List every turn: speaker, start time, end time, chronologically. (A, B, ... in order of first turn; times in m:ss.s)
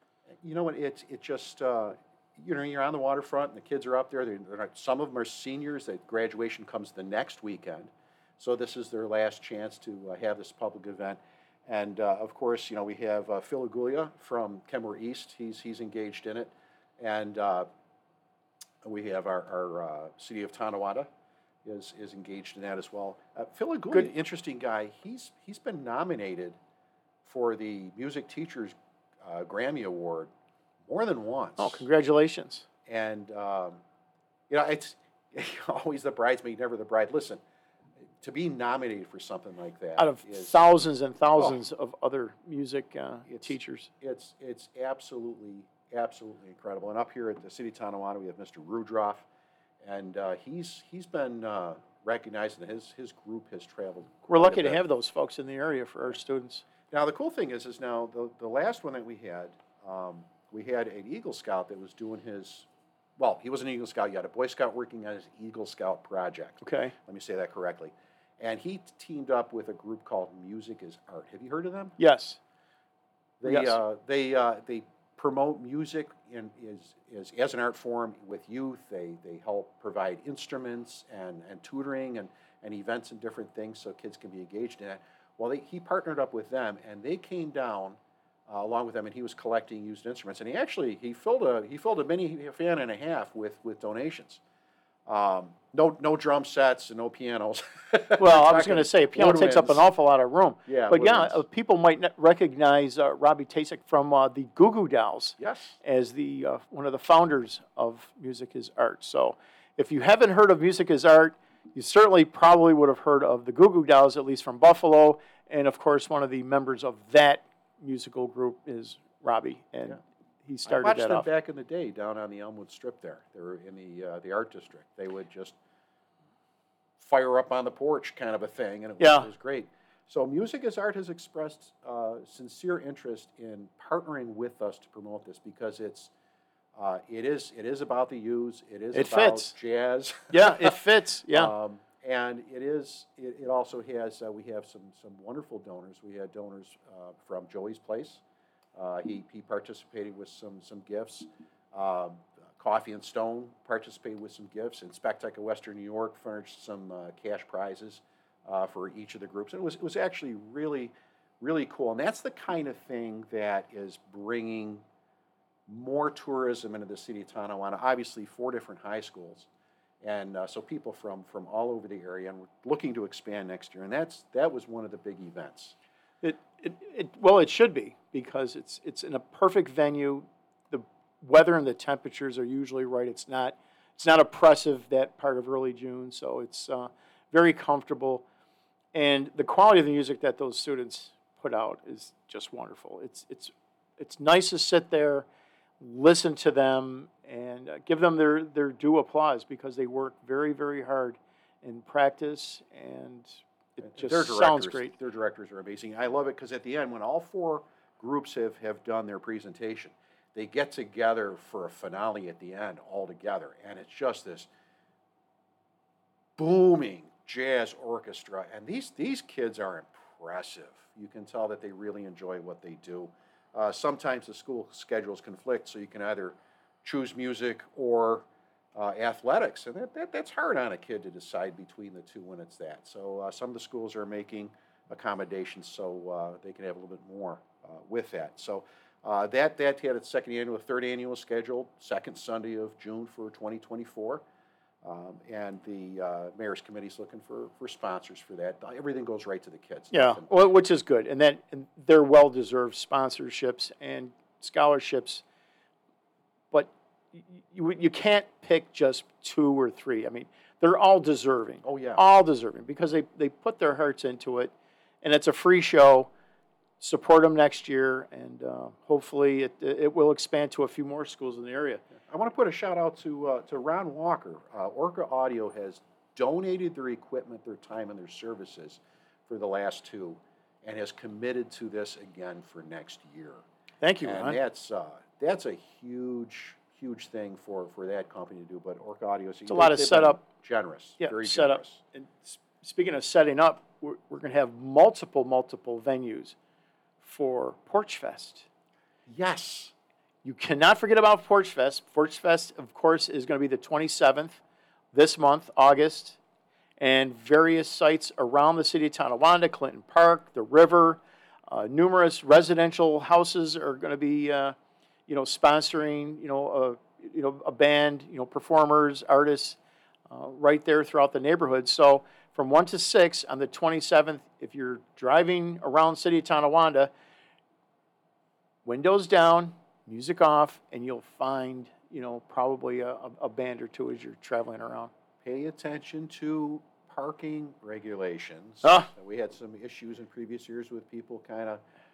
0:00.3-0:17.7 A
0:18.8-0:21.1 A
0:21.6-0:26.6 A
0:27.2-0:30.3 A
0:30.9-0:31.9 A
0:31.6-0:32.7 B
0:32.8-0:33.8 A
0:34.5-0:37.4 A
0:38.2-0:40.6 A
0:40.0-0:43.9 B
0:43.3-0:49.2 A
0:49.8-0:54.8 A
0:54.3-0:56.6 B
0:56.9-1:12.0 A
1:06.6-1:06.9 B
1:12.0-1:12.4 B
1:13.4-1:34.4 A
1:13.4-1:13.8 B
1:35.0-1:39.8 A
1:38.2-2:01.3 B
1:40.6-1:41.4 A
1:45.4-1:45.8 A
2:00.6-2:05.6 A
2:07.0-2:16.1 A
2:09.0-2:09.3 B
2:16.8-2:20.8 A
2:18.9-2:19.5 B
2:20.3-2:21.5 B
2:21.3-2:28.2 A
2:28.8-2:44.8 A
2:45.7-2:49.5 A
2:50.0-2:55.8 A
2:56.2-3:08.2 B
3:08.9-3:15.2 B
3:15.8-3:24.9 B
3:23.8-3:34.5 A
3:36.4-4:04.2 A
4:04.8-4:10.3 A
4:09.9-4:15.2 B
4:16.5-4:26.1 B
4:21.6-4:22.0 A
4:26.8-4:31.8 B
4:32.0-4:43.4 A
4:43.8-4:44.4 B
4:44.0-4:51.8 A
4:49.5-4:50.2 B
4:51.0-4:56.4 B
4:57.0-4:58.5 B
4:59.1-4:59.7 A
5:00.2-5:04.4 B
5:04.9-5:06.2 B
5:06.8-5:14.5 B
5:15.1-5:19.6 B
5:20.1-5:26.9 B
5:28.6-5:34.9 B
5:35.2-5:41.6 A
5:38.6-5:38.9 B